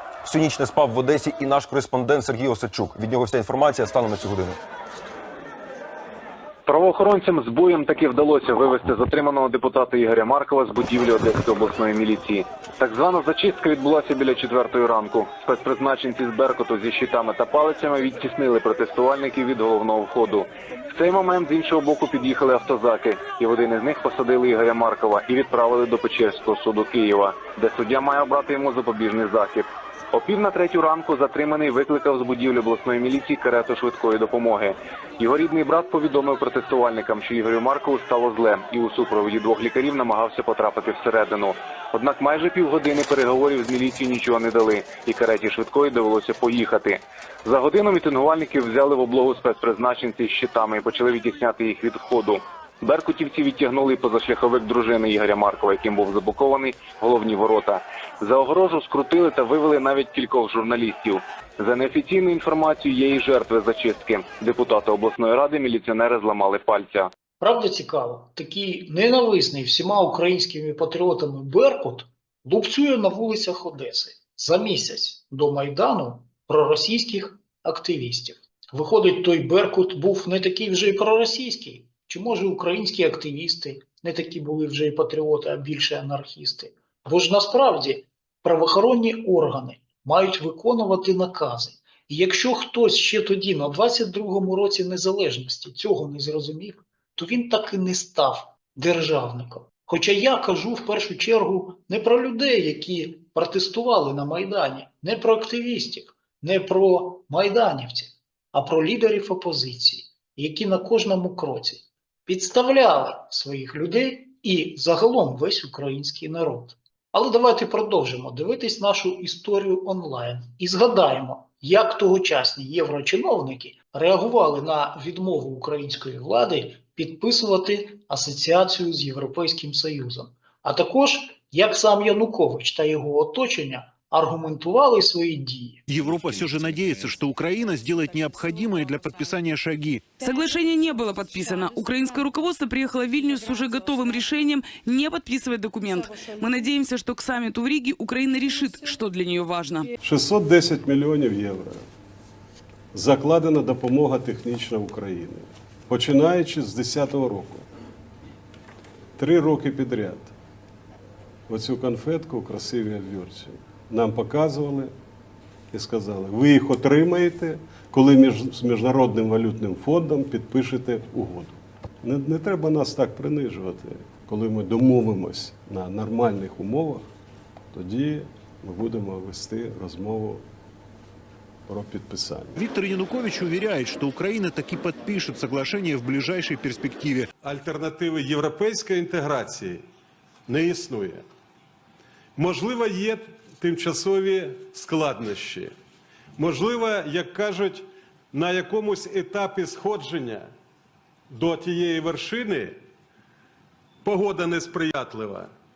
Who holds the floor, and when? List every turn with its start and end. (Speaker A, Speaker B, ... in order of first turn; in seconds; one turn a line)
Speaker A: 0.2-4.6
Speaker B: 6.7-20.4
Speaker B: 21.0-29.6
Speaker B: 30.1-46.9
Speaker B: 47.5-52.4
Speaker B: 52.9-67.0
Speaker C: 67.4-135.8
Speaker D: 135.9-140.1
Speaker E: 140.2-149.9
Speaker F: 150.0-151.8
Speaker F: 152.9-157.7
Speaker F: 159.2-160.3
Speaker F: 161.5-164.9
Speaker F: 165.7-177.1
Speaker F: 177.7-180.4
Speaker F: 181.7-182.6
Speaker D: 182.6-187.3
Speaker F: 187.4-189.8
Speaker F: 190.5-191.2
Speaker F: 192.4-195.8
Speaker F: 196.4-200.5
Speaker F: 201.3-202.8
Speaker F: 204.0-205.5